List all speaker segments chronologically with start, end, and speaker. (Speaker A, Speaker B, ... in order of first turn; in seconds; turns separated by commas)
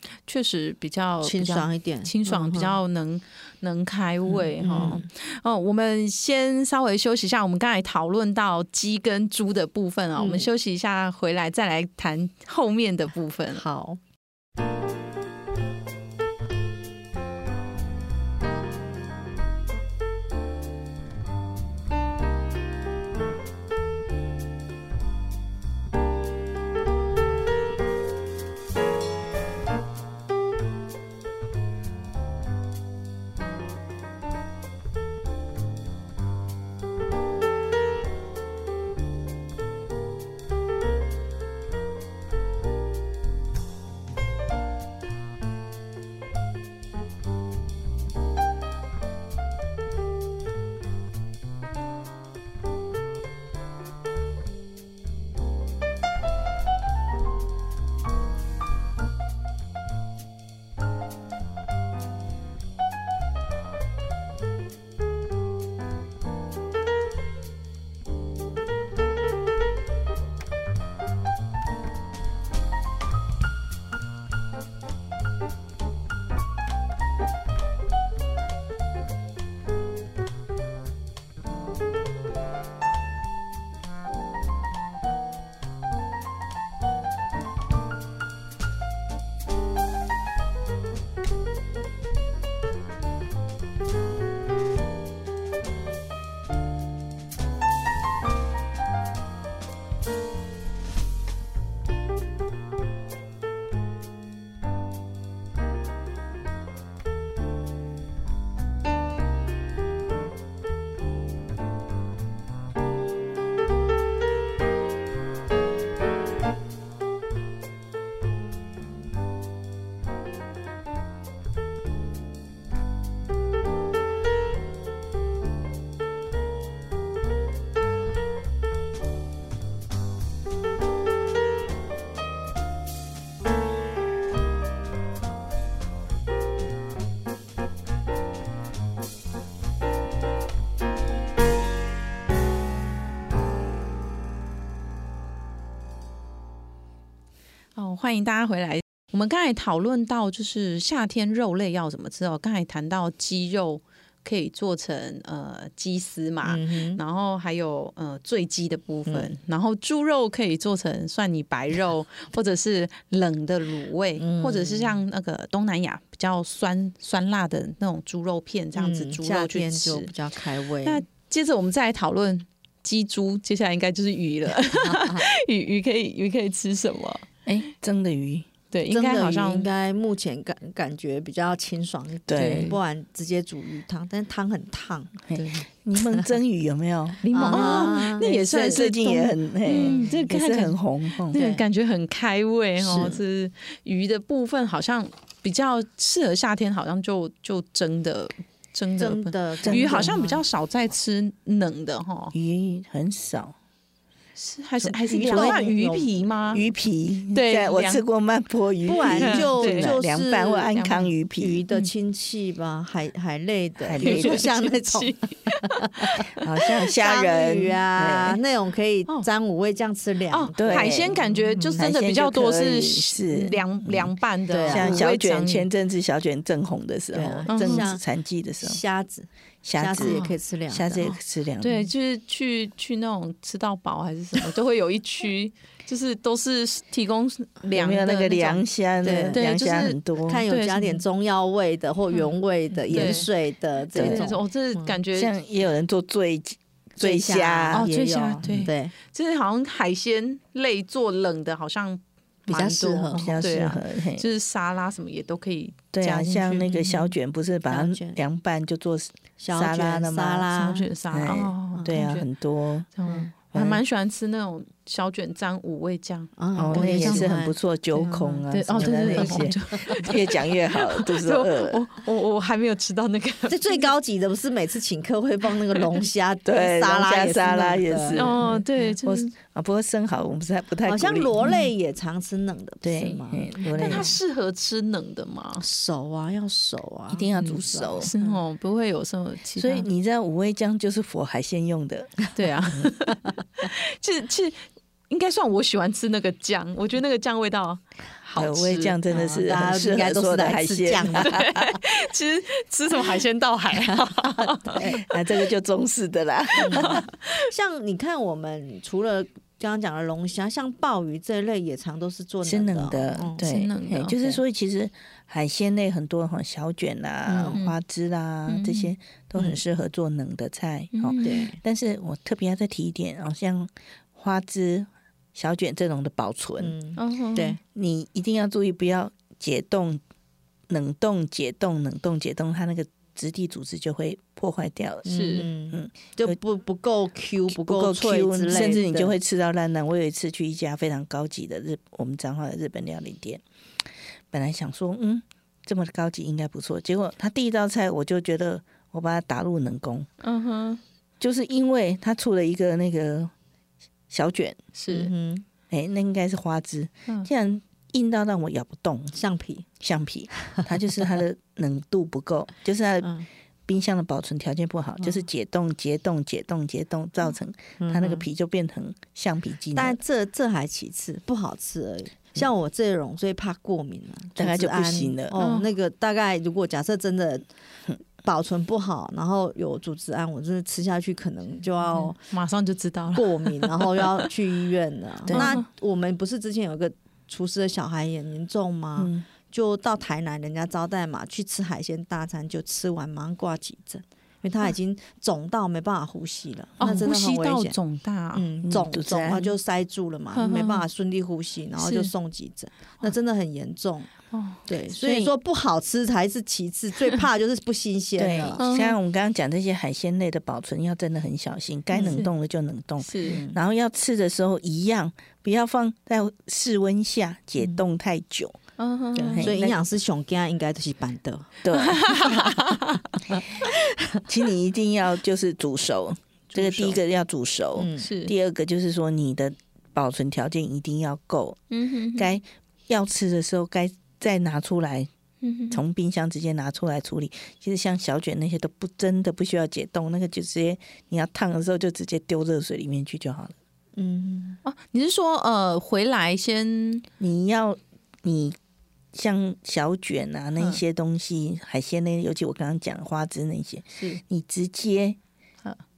Speaker A: 0.3-13.6, Speaker B: 1.2-2.8, Speaker B: 4.3-5.0, Speaker B: 10.2-10.5, Speaker B: 13.5-14.0, Speaker A: 147.8-170.1, Speaker B: 156.4-157.0, Speaker B: 164.2-165.0, Speaker B: 168.7-171.0, Speaker A: 170.8-177.3, Speaker B: 174.7-175.2, Speaker C: 177.4-178.5, Speaker A: 178.7-179.7, Speaker B: 178.9-186.2, Speaker C: 182.3-182.7, Speaker A: 182.3-182.8, Speaker C: 185.3-191.4, Speaker A: 187.2-202.3, Speaker B: 187.3-188.3, Speaker B: 189.7-190.2, Speaker B: 191.3-191.6, Speaker B: 192.8-193.2, Speaker B: 199.0-200.4, Speaker C: 199.6-200.1, Speaker C: 202.3-203.5, Speaker A: 204.3-206.6, Speaker C: 204.8-205.7, Speaker B: 205.2-206.1, Speaker C: 206.5-211.6, Speaker A: 207.3-208.0, Speaker B: 208.8-210.7, Speaker A: 209.0-210.0, Speaker A: 210.7-211.1, Speaker B: 211.4-216.2, Speaker C: 213.8-214.4, Speaker A: 214.0-216.3, Speaker C: 216.4-218.4, Speaker B: 216.8-221.8, Speaker A: 220.3-225.7, Speaker C: 220.6-221.2, Speaker C: 221.8-224.1, Speaker B: 224.5-225.0, Speaker C: 224.7-228.8, Speaker B: 227.1-228.0, Speaker A: 227.5-227.9, Speaker B: 228.6-231.1, Speaker C: 229.6-231.9, Speaker A: 230.0-230.3, Speaker A: 231.6-238.6, Speaker C: 237.7-240.4, Speaker B: 239.0-239.4, Speaker A: 239.3-241.0, Speaker B: 240.3-245.0, Speaker A: 242.9-243.3, Speaker C: 242.9-243.2, Speaker A: 243.9-245.3, Speaker C: 243.9-244.3, Speaker C: 245.1-248.5, Speaker B: 247.0-248.9, Speaker A: 247.7-257.0, Speaker B: 252.5-253.3, Speaker C: 253.1-254.3, Speaker C: 255.9-260.5, Speaker B: 257.7-258.2, Speaker B: 259.4-260.9, Speaker A: 260.5-262.3, Speaker C: 261.1-262.9, Speaker A: 262.9-267.4, Speaker B: 263.1-263.3, Speaker C: 263.5-263.8, Speaker B: 266.4-270.1, Speaker C: 266.6-271.8, Speaker A: 268.5-273.9, Speaker B: 273.5-278.6, Speaker C: 276.4-281.3, Speaker A: 278.1-279.3, Speaker B: 280.9-284.1, Speaker C: 282.8-284.1, Speaker A: 283.7-285.6, Speaker B: 285.6-288.4, Speaker C: 287.1-288.1, Speaker A: 288.0-289.9, Speaker C: 289.6-292.9, Speaker A: 292.3-299.0, Speaker C: 298.4-301.7, Speaker B: 299.1-301.4, Speaker A: 301.1-304.8, Speaker B: 303.9-305.0, Speaker C: 304.8-307.0, Speaker B: 306.6-313.4, Speaker A: 306.6-307.4, Speaker C: 312.4-326.7, Speaker A: 313.4-314.4, Speaker B: 317.3-317.6, Speaker A: 318.5-318.9, Speaker A: 320.9-321.5, Speaker B: 321.2-321.6, Speaker B: 326.6-327.6, Speaker A: 327.0-327.6, Speaker C: 327.7-330.0, Speaker C: 330.7-335.1, Speaker B: 335.0-339.1, Speaker A: 335.1-335.5, Speaker C: 335.7-336.4, Speaker C: 337.5-343.4, Speaker C: 344.3-350.1, Speaker A: 350.2-350.8, Speaker C: 351.2-353.3, Speaker C: 354.1-354.6, Speaker A: 354.8-355.1, Speaker B: 354.9-355.4, Speaker C: 355.7-359.1, Speaker B: 359.1-359.6, Speaker C: 359.8-363.1, Speaker C: 363.7-370.0, Speaker B: 367.8-368.2, Speaker B: 369.7-377.5, Speaker C: 374.4-375.3, Speaker A: 375.4-375.6, Speaker B: 378.2-382.2, Speaker A: 381.9-384.1, Speaker B: 383.1-397.7, Speaker C: 385.2-385.6, Speaker A: 385.3-385.6, Speaker C: 389.0-389.2, Speaker A: 396.8-398.5, Speaker B: 398.3-404.1, Speaker C: 398.6-399.4, Speaker A: 400.3-400.8, Speaker A: 401.8-402.1, Speaker A: 404.3-405.3, Speaker B: 404.6-408.6, Speaker C: 408.2-418.6, Speaker A: 408.6-409.0, Speaker B: 411.9-412.2, Speaker A: 412.0-412.3, Speaker A: 413.0-413.4, Speaker B: 413.2-413.6, Speaker A: 418.8-419.7, Speaker B: 419.1-421.5, Speaker C: 419.3-419.7, Speaker C: 421.6-422.4, Speaker A: 421.7-423.0, Speaker B: 422.1-422.6, Speaker B: 423.3-424.2, Speaker C: 424.3-431.6, Speaker A: 426.5-426.9, Speaker B: 427.8-428.1, Speaker A: 428.0-428.3, Speaker A: 431.7-432.3, Speaker C: 432.1-435.1, Speaker A: 435.4-435.8, Speaker C: 435.7-443.5, Speaker B: 443.9-444.6, Speaker A: 444.6-447.1, Speaker C: 447.2-448.6, Speaker C: 449.1-455.2, Speaker B: 453.9-454.2